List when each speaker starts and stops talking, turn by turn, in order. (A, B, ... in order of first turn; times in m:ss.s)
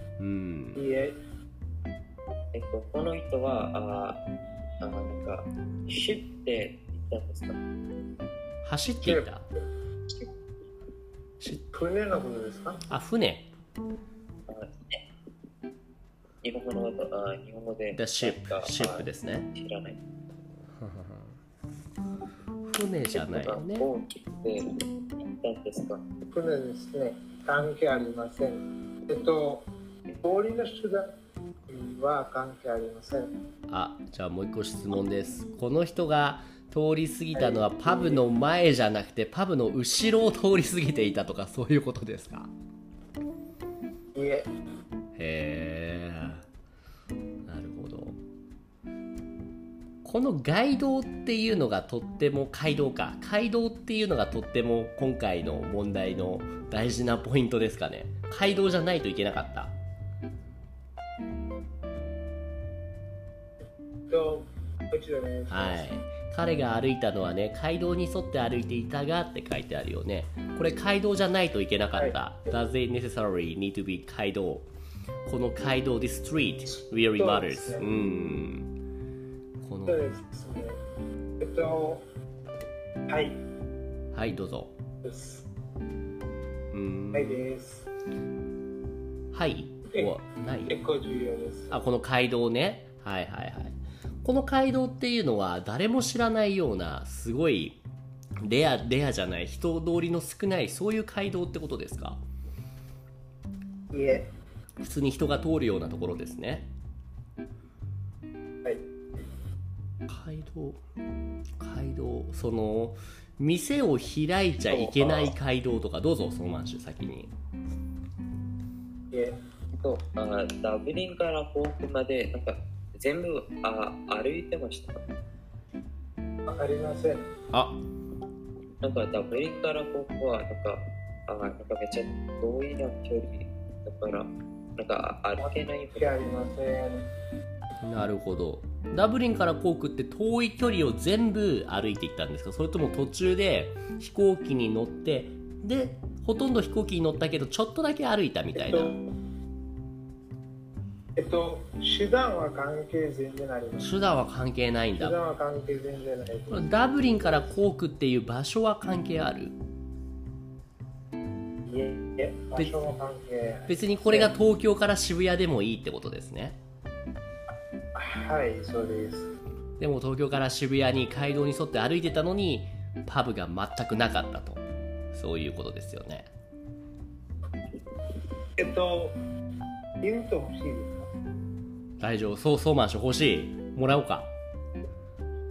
0:00.2-0:00.8 A
0:00.8-0:01.2 B
0:02.5-0:04.2 C
0:04.8-0:07.6 C
0:08.6-0:09.5 A
0:09.0-0:09.3 B
0:11.7-0:12.8 B
0:12.9-0:13.5 A
0:14.5-0:15.0 C
0:16.4-0:20.0 C
0:18.0-0:19.5 A
0:20.8-0:21.4 A
0:22.6-0:23.9 A
0:23.1-0:26.0 C
0:26.3-0:29.7 B
0:30.2-0:31.1 B
0:31.7-0:33.3 B
0:33.7-0:42.5 A
0:37.3-0:38.2 B
0:44.2-0:44.5 B
0:45.2-0:46.5 A
0:47.5-0:48.2 A
0:50.0-0:59.8 A
1:04.1-1:05.9 B
1:05.5-1:14.7 A
1:12.0-1:12.5 B
1:15.3-1:18.7 A
1:16.7-1:17.9 B
1:19.6-1:20.0 A
1:19.9-1:20.8 B
1:21.4-1:22.0 B
1:23.1-1:23.4 B
1:24.1-1:24.8 A
1:25.0-1:25.5 B
1:26.7-1:27.4 A
1:27.1-1:27.9 B
1:29.3-1:30.8 A
1:29.9-1:30.2 B
1:30.7-1:31.8 B
1:31.7-1:37.8 A
1:38.4-1:42.2 A
1:43.9-1:44.3 B
1:44.8-1:46.7 A
1:50.1-1:50.8 A
1:51.6-1:57.3 A
1:54.7-1:55.2 B
1:59.8-2:05.0 C
2:06.5-2:07.3 B
2:07.5-2:07.8 A
2:08.8-2:16.2 C
2:15.4-2:17.1 B
2:17.8-2:29.0 A
2:28.5-2:29.1 B
2:31.2-2:33.9 B
2:33.8-2:35.2 A
2:35.0-2:36.6 B
2:36.5-2:39.6 A
2:41.7-2:44.3 B
2:42.6-2:42.9 A
2:43.7-2:46.6 A
2:48.0-2:49.3 B
2:49.8-2:56.3 A
2:58.6-2:59.2 B
3:00.0-3:01.1 B
3:02.0-3:04.3 A